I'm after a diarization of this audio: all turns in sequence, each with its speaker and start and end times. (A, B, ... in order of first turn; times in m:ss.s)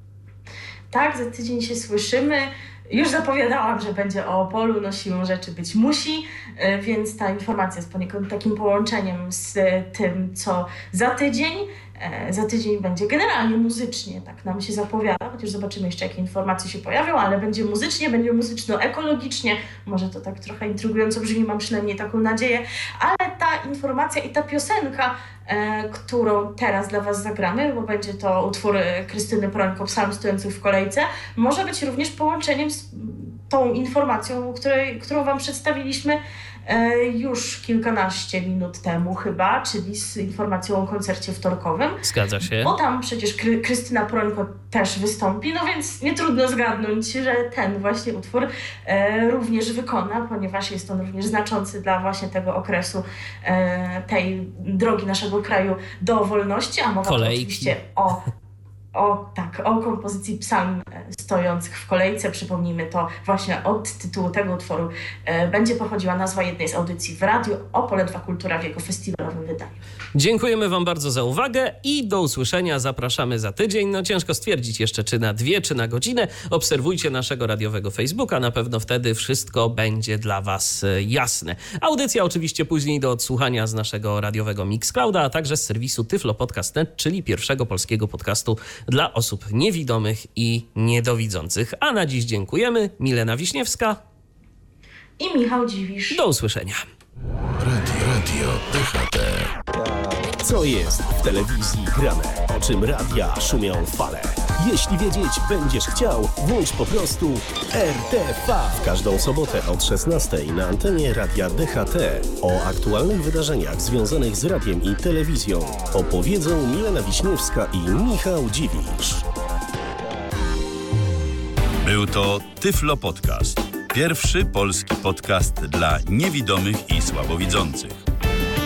0:00.9-0:58.2 A
0:42.0-0:42.7 B
0:57.0-0:57.7 B
0:58.9-1:09.8 A
1:10.1-1:34.0 B
1:35.2-1:36.2 A
1:36.1-1:36.8 B
1:37.6-1:39.5 C
1:39.7-1:59.2 D
2:01.8-2:08.0 E